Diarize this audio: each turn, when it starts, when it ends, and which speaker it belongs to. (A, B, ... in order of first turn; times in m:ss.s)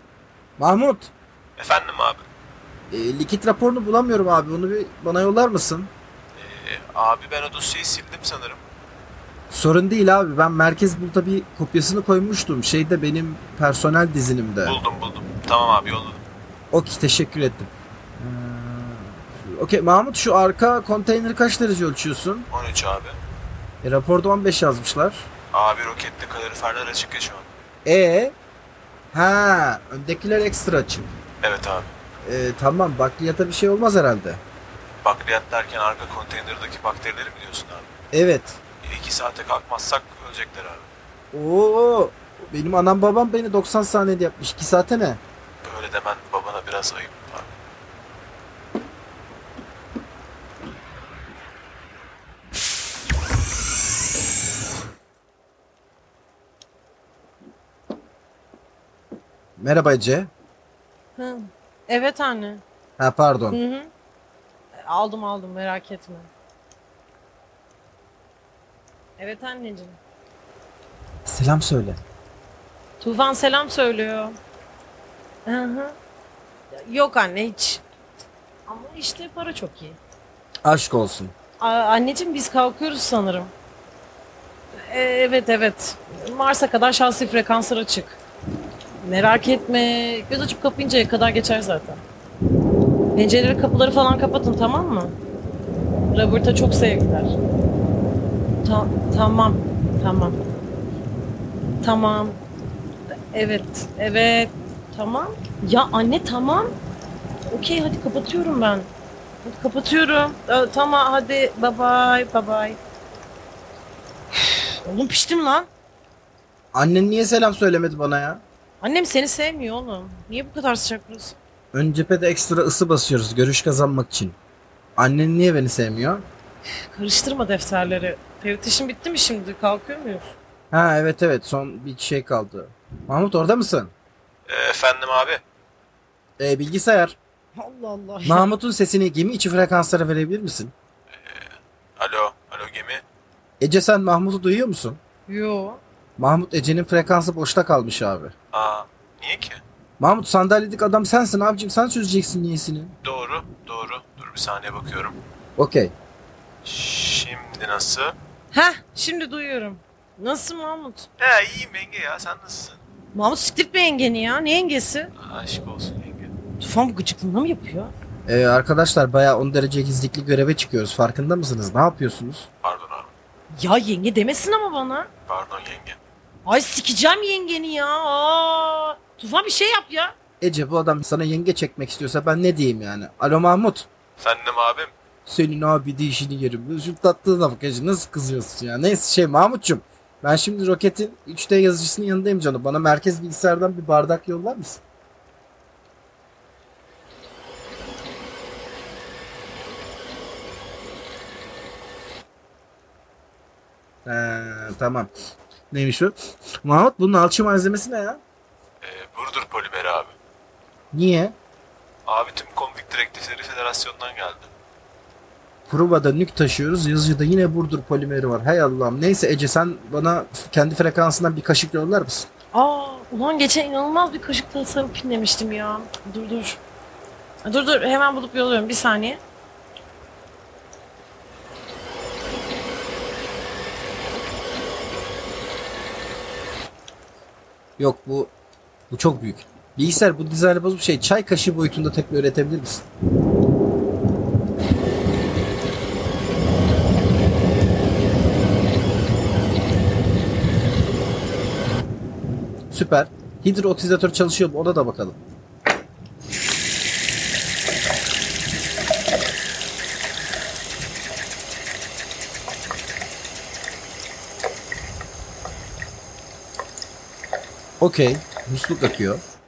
0:00.6-0:01.1 A
0:01.6-0:02.2 B
0:02.9-0:05.9 A
0:06.4-0:08.6 B
0:09.5-0:14.8 A
0:14.6-0:16.2 B
0:16.7-0:22.5 A
0:22.5-0:23.2 B
0:23.8-0:25.3 A
0:25.5-0:27.5 B
0:27.8-0:28.3 A
0:29.1-0:31.1 A
0:31.4-0:31.9 B
0:32.2-0:34.4 A
0:35.0-0:37.9 B
0:38.1-0:38.6 A
0:38.8-0:40.9 B
0:41.3-0:45.2 A
0:45.6-0:47.5 B
0:59.6-1:00.3 A
1:01.2-1:02.6 C
1:03.0-1:03.6 A
1:03.5-1:03.9 C
1:04.7-1:06.3 C
1:09.2-1:10.0 C
1:11.2-1:12.0 A
1:13.0-1:14.4 C
1:15.4-1:16.0 C
1:16.7-1:17.8 C
1:18.7-1:20.0 C
1:20.6-1:21.3 A
1:21.6-1:23.5 C
1:24.7-1:28.2 C
1:29.0-1:32.0 C
1:33.1-1:35.2 C
1:36.1-1:37.4 C
1:38.6-1:40.4 C
1:41.8-1:42.4 C
1:43.1-1:46.8 C
1:47.5-1:48.9 C
1:49.4-1:52.8 C
1:54.4-1:55.7 C
1:56.7-1:58.4 A
1:58.8-2:01.4 C
2:01.7-2:04.4 A
2:05.0-2:06.2 A
2:06.9-2:10.4 C
2:10.7-2:13.9 A
2:14.5-2:15.4 B
2:16.4-2:17.2 A
2:17.6-2:18.5 C
2:18.2-2:20.7 A
2:21.1-2:23.0 B
2:23.6-2:25.0 A
2:25.3-2:25.8 C
2:26.2-2:28.3 A
2:28.5-2:29.6 B
2:30.0-2:32.9 A
2:33.0-2:35.2 B
2:35.6-2:35.9 A
2:36.6-2:38.1 B
2:38.5-2:41.1 C
2:41.2-2:42.8 B
2:43.1-2:45.1 C
2:45.2-2:46.3 B
2:46.6-2:47.9 C
2:48.2-2:52.5 A
2:52.6-2:53.1 B
2:53.5-2:55.1 C
2:55.3-2:56.0 B
2:56.4-3:00.2 C
3:00.4-3:03.9 A
3:04.2-3:04.9 B
3:05.2-3:14.8 A
3:24.0-3:25.1 A
3:25.7-3:28.2 A
3:28.8-3:30.1 B
3:30.9-3:31.4 A
3:32.0-3:34.5 B
3:35.7-3:42.3 A
3:42.5-3:46.6 C
3:47.4-3:49.2 C
3:57.8-3:58.3 A
3:58.9-4:02.8 A
4:12.7-4:15.2 A
4:27.8-4:29.2 A